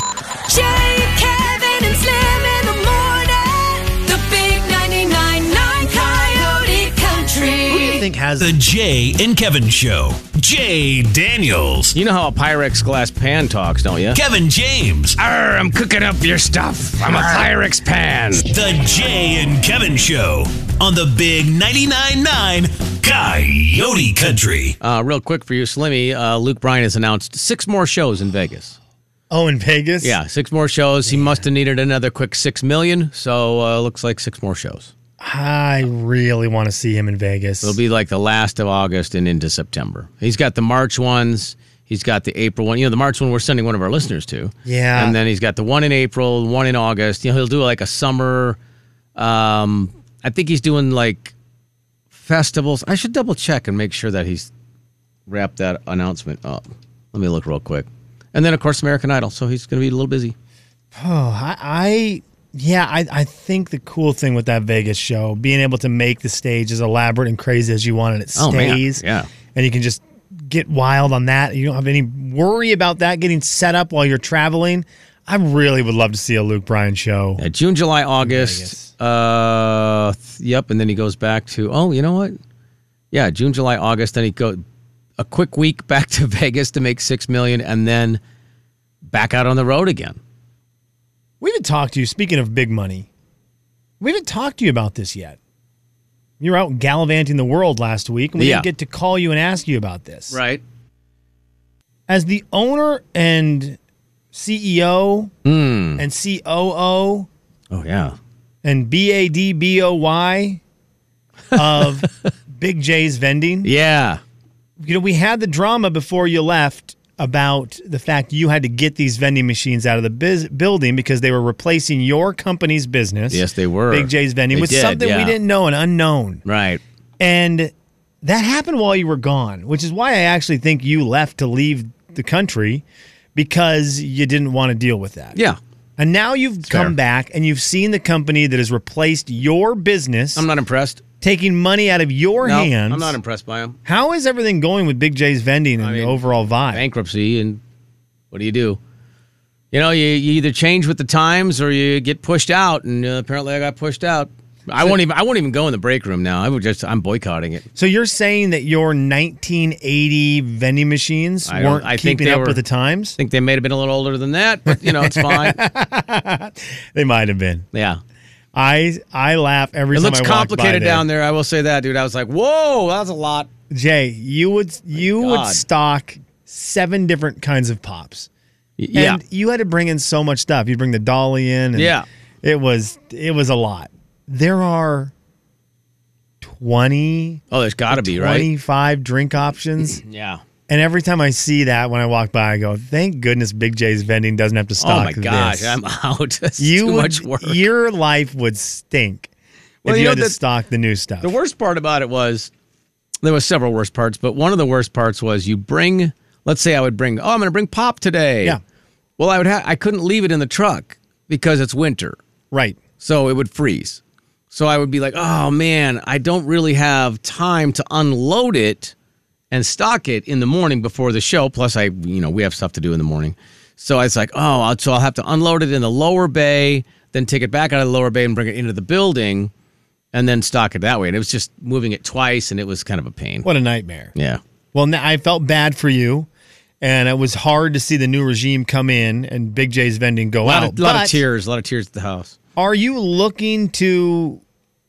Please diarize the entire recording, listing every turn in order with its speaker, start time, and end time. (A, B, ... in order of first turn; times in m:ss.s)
0:00.5-0:08.0 A
0:07.7-0:08.5 B
0:08.4-0:12.0 C
0:11.9-0:14.2 D
0:14.1-0:15.2 C
0:15.2-0:18.5 D
0:18.4-0:24.8 C
0:24.8-0:28.8 D
0:29.3-0:30.2 B
0:30.0-0:34.9 D
0:31.1-0:31.4 B
0:35.2-0:37.8 B
0:37.6-0:48.6 D
0:44.7-0:45.2 B
0:49.2-0:51.3 D
0:52.1-0:54.5 D
0:55.3-1:00.4 D
1:01.0-1:17.4 B
1:08.4-1:09.3 D
1:17.4-1:22.4 D
1:18.2-1:18.9 B
1:23.1-1:24.6 D
1:25.2-1:28.2 D
1:29.1-1:30.2 D
1:31.4-1:33.1 B
1:34.0-1:35.4 B
1:36.4-1:40.4 B
1:38.4-1:38.7 D
1:40.3-1:40.6 D
1:42.1-1:43.8 B
1:44.3-1:45.3 B
1:45.4-1:46.0 D
1:46.0-1:47.3 B
1:47.7-1:48.2 D
1:48.6-1:50.6 B
1:51.5-1:53.7 B
1:53.6-1:54.2 D
1:54.8-2:06.4 B
2:03.3-2:05.4 D
2:06.4-2:06.8 D
2:07.2-2:07.7 B
2:08.2-2:12.8 B
2:13.4-2:15.4 B
2:16.0-2:20.5 B
2:16.7-2:17.0 D
2:20.4-2:21.0 D
2:21.2-2:23.2 B
2:22.4-2:23.8 D
2:23.8-2:26.8 B
2:25.8-2:26.2 D
2:26.7-2:27.6 D
2:28.3-2:28.8 D
2:29.7-2:37.7 D
2:37.8-2:43.2 B
2:41.5-2:42.6 D
2:43.2-2:45.6 D
2:44.7-2:47.7 B
2:47.7-2:48.0 D
2:48.5-2:51.0 B
2:49.9-2:53.5 D
2:53.7-2:58.3 B
2:55.0-2:55.6 D
2:58.8-2:59.2 D
2:58.9-3:05.1 B
3:01.8-3:02.1 D
3:06.4-3:10.0 B
3:07.5-3:08.5 D
3:09.8-3:10.4 D
3:10.7-3:15.8 B
3:14.8-3:17.6 D
3:16.6-3:19.3 B
3:19.8-3:20.4 D
3:19.9-3:21.3 B
3:21.2-3:22.5 D
3:23.2-3:28.6 D
3:29.2-3:32.2 D
3:32.5-3:32.8 B
3:33.0-3:34.0 D
3:34.5-3:38.9 D
3:39.5-3:49.5 D
3:50.1-3:53.5 D
3:53.4-3:54.1 B
3:54.2-3:54.4 D
3:54.7-3:56.3 B
3:56.8-4:01.2 B
4:00.4-4:02.4 D
4:02.6-4:04.4 B